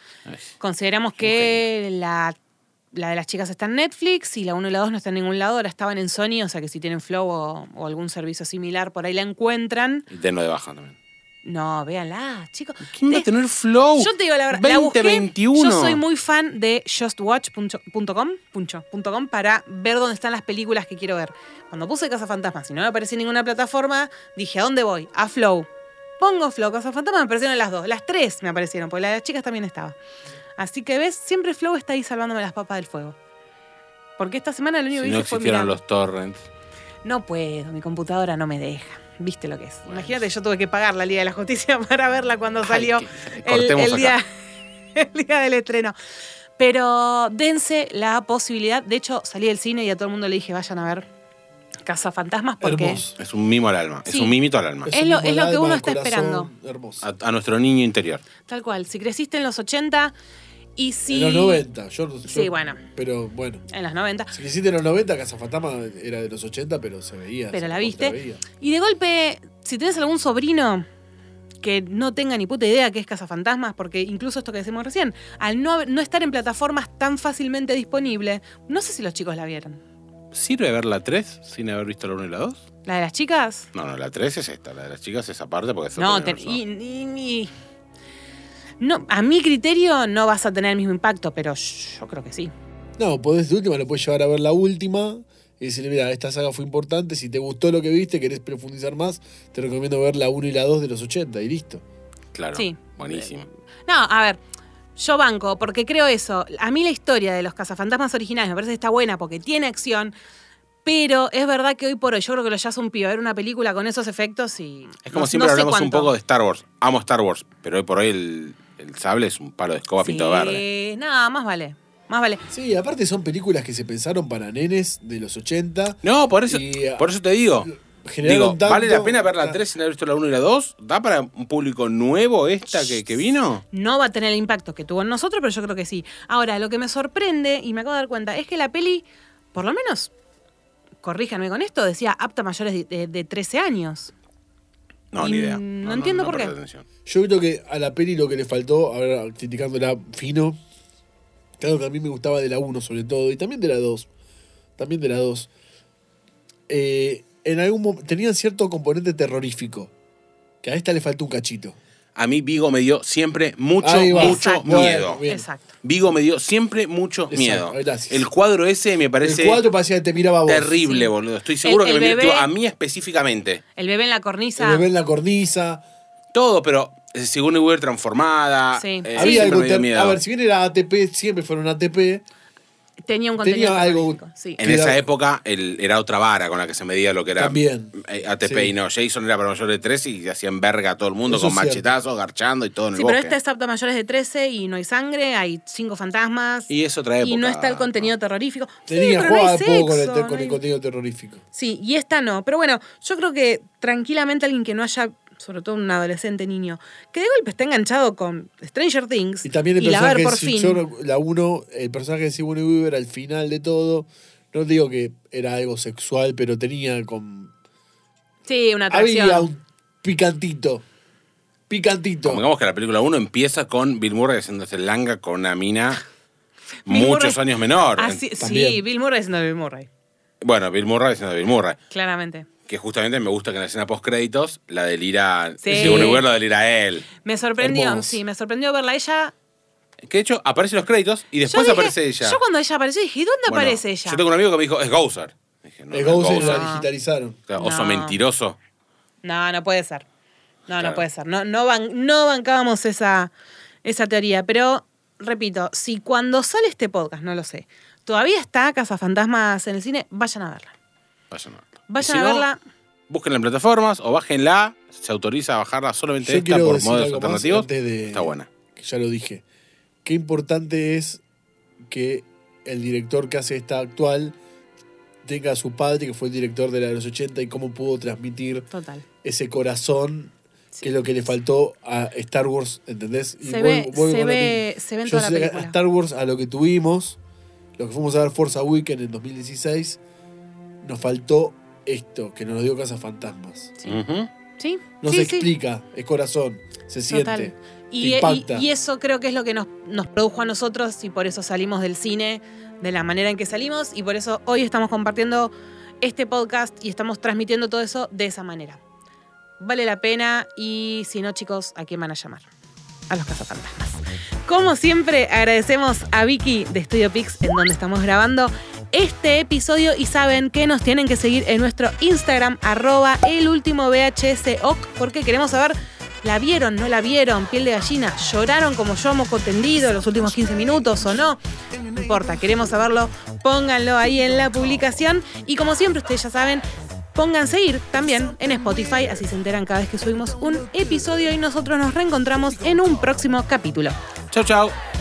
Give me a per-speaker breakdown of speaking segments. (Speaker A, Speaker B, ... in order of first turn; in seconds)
Speaker A: 0.6-2.4, 2.9-10.0, 11.4-13.3, 14.0-25.7, 26.2-29.9, 30.6-33.1, 34.2-35.8, 37.0-44.2, 44.9-45.9, 46.6-51.0, 51.9-53.0, 54.0-54.4, 54.9-56.5, 58.5-60.1, 60.8-61.6, 62.2-62.8, 63.7-64.3, 67.5-70.8, 71.6-79.8, 82.8-83.7, 86.0-87.5, 88.8-92.5, 102.5-103.3, 103.9-104.4, 105.0-110.1, 110.8-116.1, 120.0-122.4, 133.7-140.1, 141.0-144.1, 145.2-146.5, 164.1-165.7, 170.8-171.1, 171.6-172.5, 173.8-174.8, 178.7-179.5, 183.1-184.6, 192.9-196.7, 197.2-200.6, 201.5-210.8, 218.4-219.5, 226.8-227.4, 227.9-229.9, 231.9-232.5, 235.6-236.2, 237.2-239.3, 241.4-244.2, 246.3-246.9, 247.6-248.2, 249.2-250.1, 250.7-253.3, 253.8-260.7, 261.9-262.6, 278.7-279.0, 283.4-285.8, 294.6-295.5, 297.1-308.8, 309.6-312.5, 313.1-331.4, 331.9-336.6, 337.1-344.0
Speaker B: 1.2-1.6, 10.1-10.9, 12.9-16.0, 34.9-36.5, 39.9-40.2, 42.6-44.1, 53.2-54.9, 57.0-58.2, 80.3-82.6, 83.7-86.6, 102.3-103.5, 115.0-120.6, 126.0-127.7, 128.2-133.6, 145.1-146.8, 162.2-165.2, 165.8-169.6, 170.4-173.6, 176.3-180.2, 184.6-193.3, 196.7-198.1, 222.2-226.0, 226.9-228.2, 230.4-231.8, 232.7-237.1, 240.0-242.4, 243.5-246.7, 247.5-248.6, 250.8-251.0, 261.3-262.5, 263.1-268.5, 293.9-294.3, 344.3-344.8
Speaker C: 52.6-53.1, 54.8-57.0, 61.1-63.6, 64.3-68.4, 93.0-101.8, 122.5-127.1, 127.6-129.6, 147.1-150.6, 151.6-154.1, 154.8-155.5, 156.7-159.9, 160.6-161.8, 163.8-165.4, 167.3-168.3, 169.2-170.8, 174.6-175.8, 179.2-182.2, 183.4-185.0, 187.4-188.7, 191.2-191.8, 198.9-201.4, 209.4-217.5, 218.9-220.8, 221.7-222.4, 228.4-228.8, 235.7-236.2, 237.6-238.2, 245.9-247.4, 266.2-269.4, 270.0-271.2, 271.9-274.4, 275.2-278.7, 279.2-287.2, 287.8-290.0, 290.8-293.7, 295.0-298.7